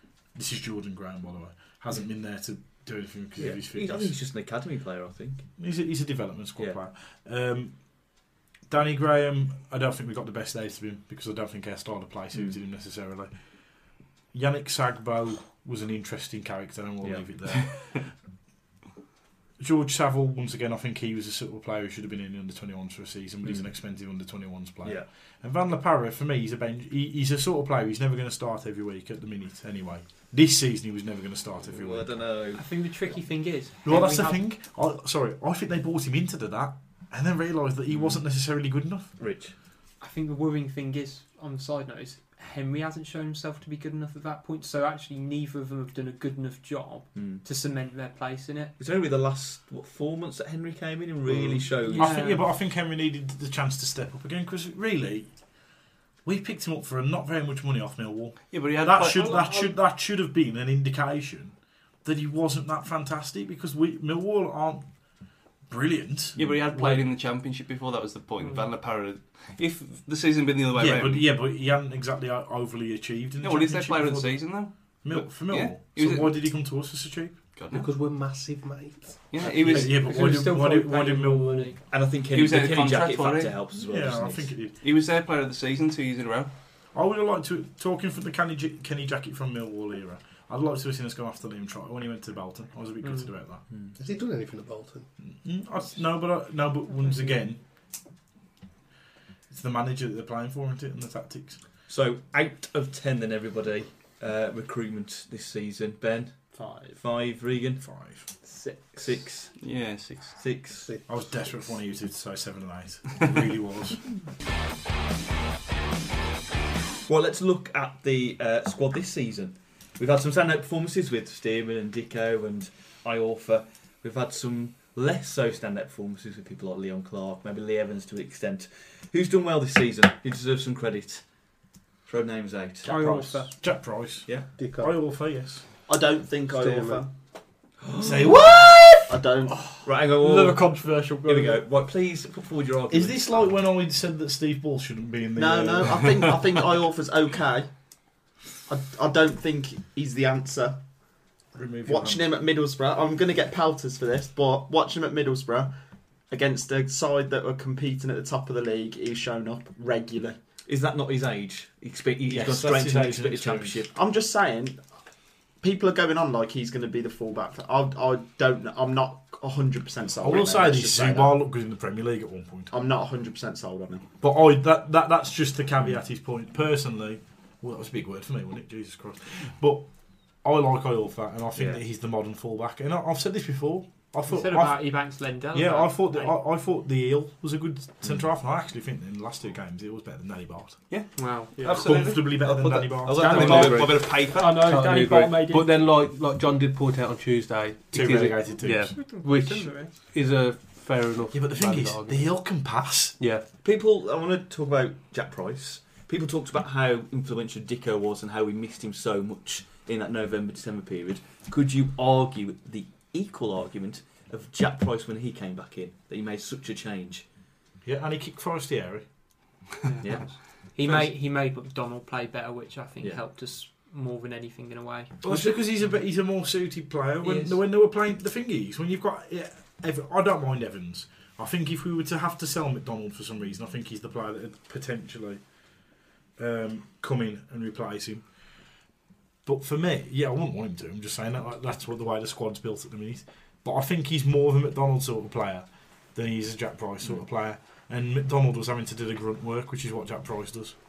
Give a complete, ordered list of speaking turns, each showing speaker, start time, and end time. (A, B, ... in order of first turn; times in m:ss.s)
0:00.3-0:04.1 A
0:03.4-0:05.5 B
0:05.6-0:18.1 A
0:17.0-0:17.9 B
0:19.6-0:32.2 A
0:24.8-0:25.1 B
0:31.6-0:32.6 B
0:32.5-0:34.4 C
0:33.8-0:39.1 A
0:37.9-0:38.2 B
0:39.2-0:39.5 B
0:40.0-0:48.7 C
0:47.1-0:47.4 B
0:48.8-0:52.2 B
0:51.9-0:52.5 C
0:51.9-0:55.6 A
0:56.2-1:04.9 A
0:58.5-0:59.7 D
1:05.7-1:07.1 A
1:06.4-1:11.4 D
1:10.8-1:11.1 E
1:10.8-1:17.5 A
1:13.4-1:16.8 D
1:17.5-1:17.9 D
1:17.7-1:19.4 E
1:19.3-1:20.0 D
1:19.4-1:19.9 B
1:19.5-1:21.8 A
1:19.8-1:21.8 C
1:21.9-1:24.5 B
1:22.3-1:23.7 D
1:23.7-1:24.8 A
1:24.7-1:26.5 D
1:26.9-1:33.6 A
1:33.0-1:33.3 C
1:34.0-1:35.1 E
1:35.2-1:37.6 A
1:39.5-1:41.6 A
1:41.9-1:47.8 B
1:46.5-1:47.0 F
1:47.8-1:48.3 A
1:48.5-1:48.9 C
1:49.0-1:49.8 B
1:49.6-1:50.4 D
1:50.4-1:50.9 B
1:51.0-1:54.0 A
1:57.1-2:11.2 B
2:12.0-2:12.9 B
2:12.8-2:13.5 C
2:12.9-2:15.6 A
2:14.6-2:14.9 E
2:15.9-2:17.1 F
2:16.5-2:17.0 E
2:17.8-2:18.4 B
2:18.0-2:19.2 A
2:19.1-2:19.6 F
2:19.5-2:21.6 C
2:19.8-2:23.4 B
2:22.9-2:26.4 A
2:25.4-2:27.7 F
2:28.7-2:30.8 F
2:31.5-2:32.2 A
2:31.8-2:35.7 F
2:36.3-2:40.4 F
2:40.7-2:43.9 B
2:42.3-2:43.9 A
2:43.9-2:44.8 F
2:45.6-2:51.4 F
2:50.2-2:52.7 A
2:52.7-2:54.0 F
2:54.2-3:11.0 A
3:01.5-3:01.8 B
3:04.3-3:06.3 C
3:10.9-3:12.4 D
3:11.2-3:11.8 C
3:11.6-3:13.6 A
3:11.8-3:14.7 B
3:12.9-3:22.3 E
3:14.1-3:15.7 C
3:17.9-3:19.0 A
3:18.7-3:19.9 C
3:21.3-3:23.2 A
3:23.2-3:23.4 E
3:23.6-3:37.2 B
3:37.8-3:39.1 A
3:39.9-3:45.1 C
3:40.0-3:41.0 B
3:45.2-3:58.3 A
3:45.2-3:45.7 B
3:47.2-3:47.6 C
3:59.4-4:10.7 A